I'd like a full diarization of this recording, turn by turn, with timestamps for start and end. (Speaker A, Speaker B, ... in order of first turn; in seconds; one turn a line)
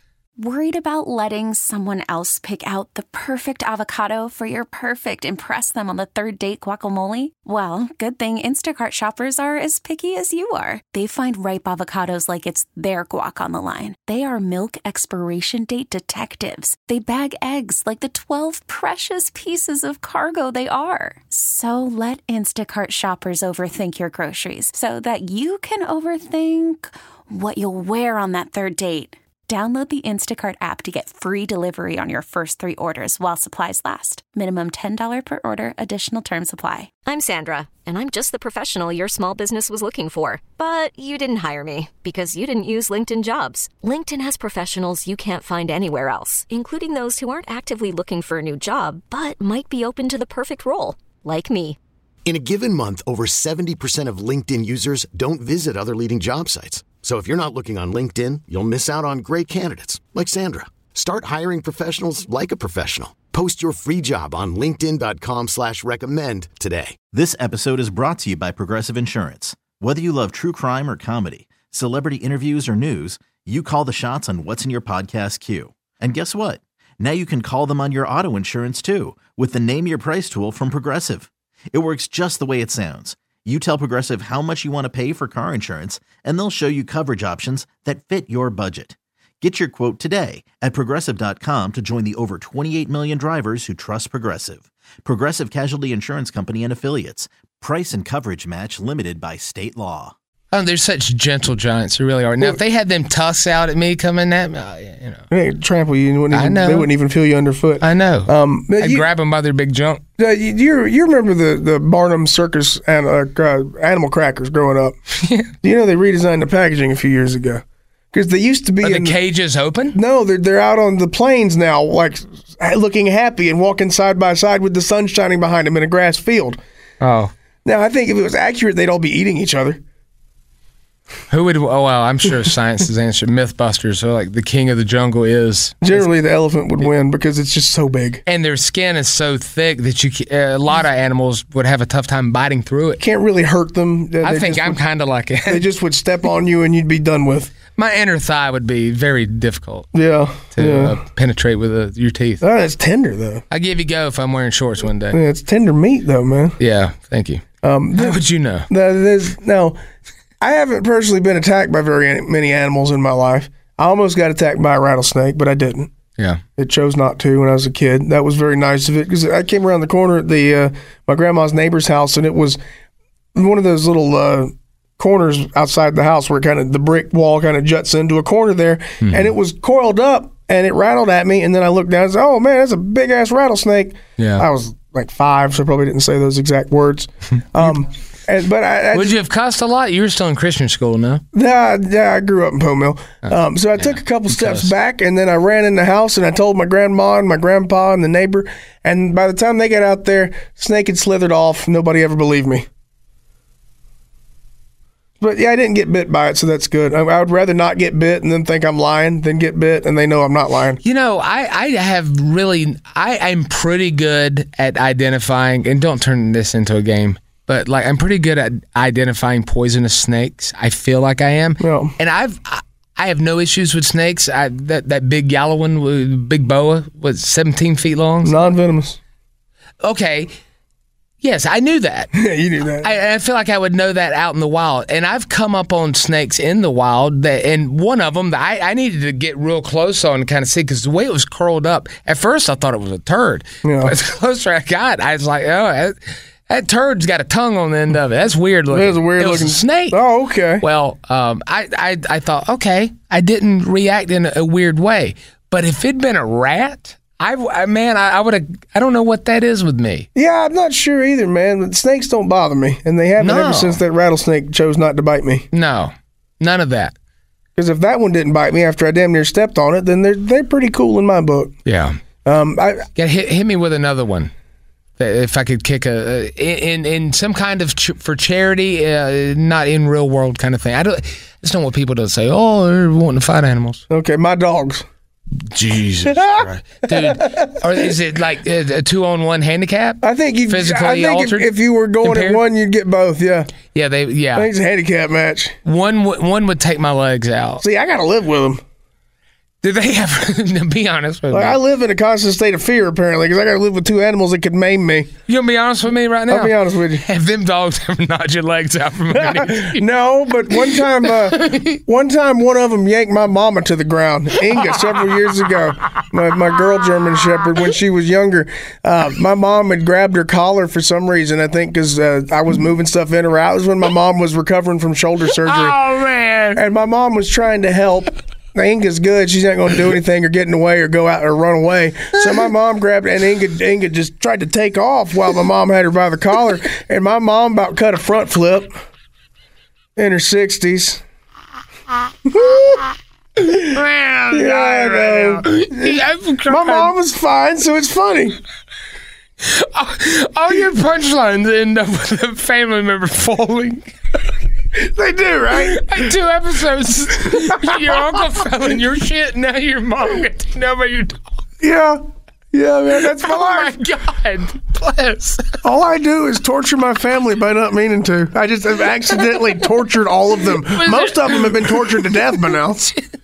Speaker A: 0.4-36.9
Speaker B: 37.0-51.8
Speaker C: 52.2-67.0
Speaker D: 67.1-100.1
Speaker E: 100.5-105.3
Speaker F: 105.3-109.1
Speaker E: 106.3-106.9
Speaker E: 107.8-110.0
Speaker F: 110.2-115.0
Speaker E: 115.2-115.5
Speaker F: 115.6-119.2
Speaker E: 118.8-120.0
Speaker F: 119.9-126.6
Speaker E: 127.0-127.3
Speaker F: 127.7-129.8
Speaker E: 131.3-136.1
Speaker F: 135.8-138.2
Speaker E: 138.3-143.0
Speaker F: 143.0-144.8
Speaker E: 144.2-145.7
Speaker F: 145.5-147.5
Speaker E: 147.7-149.9
Speaker F: 149.9-151.0
Speaker E: 150.5-152.4
Speaker F: 152.4-153.4
Speaker E: 153.5-155.2
Speaker F: 155.1-156.6
Speaker E: 156.6-157.4
Speaker F: 157.6-159.8
Speaker E: 157.9-158.7
Speaker F: 160.4-165.9
Speaker F: 166.6-172.6
Speaker F: 173.3-189.2
Speaker E: 179.0-179.3
Speaker E: 184.2-184.4
Speaker E: 188.9-191.2
Speaker F: 191.3-202.7
Speaker E: 193.2-194.7
Speaker F: 205.2-210.8
Speaker E: 210.8-228.5
Speaker F: 221.6-221.9
Speaker F: 228.2-229.0
Speaker E: 229.8-230.3
Speaker E: 231.2-232.1
Speaker F: 232.1-232.9
Speaker E: 232.8-246.0
Speaker F: 243.6-244.0
Speaker E: 246.5-250.0
Speaker F: 248.7-250.6
Speaker E: 250.6-260.1
Speaker F: 260.1-265.5
Speaker E: 263.2-263.8
Speaker E: 265.5-266.9
Speaker F: 267.6-271.5
Speaker E: 271.7-272.0
Speaker F: 272.2-272.9
Speaker E: 273.0-274.3
Speaker E: 275.0-283.8
Speaker F: 283.9-284.9
Speaker E: 285.5-292.4
Speaker F: 286.1-287.8
Speaker F: 290.0-293.5
Speaker E: 293.7-294.5
Speaker F: 294.4-295.6
Speaker E: 295.6-297.6
Speaker F: 297.6-298.6
Speaker E: 299.6-301.6
Speaker F: 301.3-305.1
Speaker E: 305.3-309.8
Speaker F: 306.3-307.0
Speaker F: 309.1-325.8
Speaker E: 310.5-311.8
Speaker E: 314.5-315.1
Speaker E: 325.4-326.6
Speaker F: 326.6-338.8
Speaker F: 340.0-341.0
Speaker F: 342.3-342.8
Speaker E: 342.4-342.8
Speaker F: 343.4-343.7
Speaker E: 343.6-346.9
Speaker F: 344.3-348.4
Speaker E: 349.4-353.9
Speaker F: 354.8-356.1
Speaker E: 355.5-361.2
Speaker F: 357.3-358.2
Speaker F: 361.6-363.8
Speaker E: 362.9-365.6
Speaker F: 365.6-372.9
Speaker E: 370.6-372.4